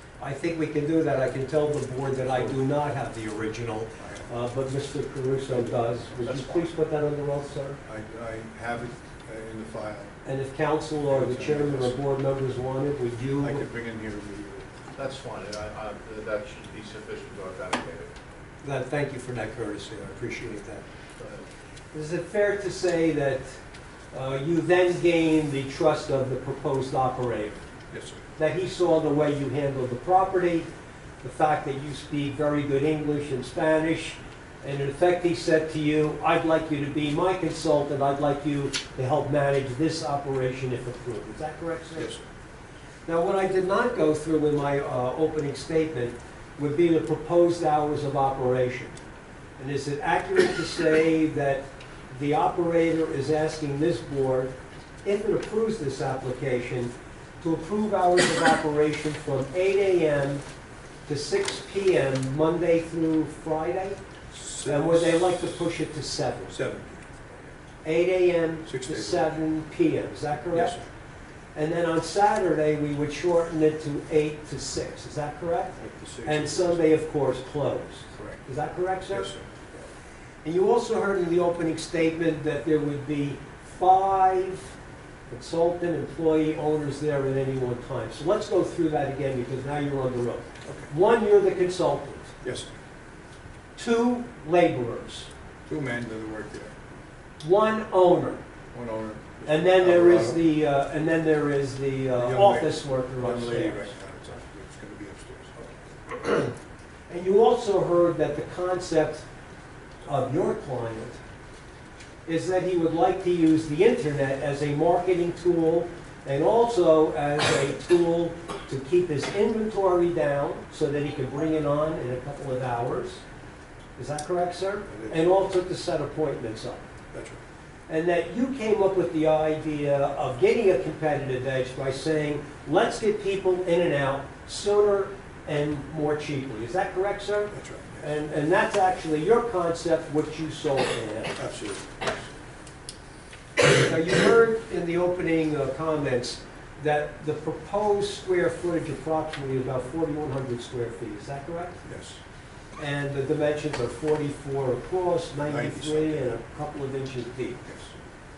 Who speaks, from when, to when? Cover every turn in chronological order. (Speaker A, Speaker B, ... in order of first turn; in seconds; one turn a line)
Speaker A: 0.2-7.8
Speaker B: 2.3-2.6
Speaker B: 4.0-4.3
Speaker B: 6.1-6.7
Speaker B: 7.8-10.1
Speaker A: 10.2-13.6
Speaker B: 11.1-12.0
Speaker B: 13.4-14.7
Speaker C: 14.9-18.1
Speaker A: 18.6-23.6
Speaker A: 24.1-27.6
Speaker B: 27.9-28.2
Speaker A: 28.4-30.7
Speaker A: 31.2-42.2
Speaker A: 43.1-49.0
Speaker A: 49.6-54.5
Speaker A: 55.0-60.4
Speaker A: 61.1-64.0
Speaker B: 64.3-65.6
Speaker A: 64.7-66.5
Speaker B: 66.5-67.1
Speaker A: 67.8-70.8
Speaker B: 68.7-69.4
Speaker B: 70.5-70.9
Speaker A: 71.5-79.9
Speaker B: 75.8-76.9
Speaker B: 78.2-78.4
Speaker B: 79.1-79.5
Speaker A: 80.4-84.8
Speaker A: 85.3-92.3
Speaker B: 90.7-90.9
Speaker B: 92.4-92.7
Speaker A: 93.8-95.3
Speaker B: 95.7-96.7
Speaker A: 97.4-98.4
Speaker B: 98.7-100.4
Speaker A: 99.5-103.9
Speaker B: 102.2-105.5
Speaker A: 106.1-106.5
Speaker A: 107.1-109.3
Speaker A: 110.1-111.2
Speaker A: 112.3-123.2
Speaker A: 124.0-126.9
Speaker B: 124.9-125.5
Speaker B: 127.1-127.4
Speaker A: 127.9-141.4
Speaker B: 137.5-138.2
Speaker B: 141.4-142.3
Speaker A: 143.6-151.8
Speaker B: 151.8-152.2
Speaker A: 152.8-157.7
Speaker B: 155.5-156.4
Speaker B: 157.7-157.9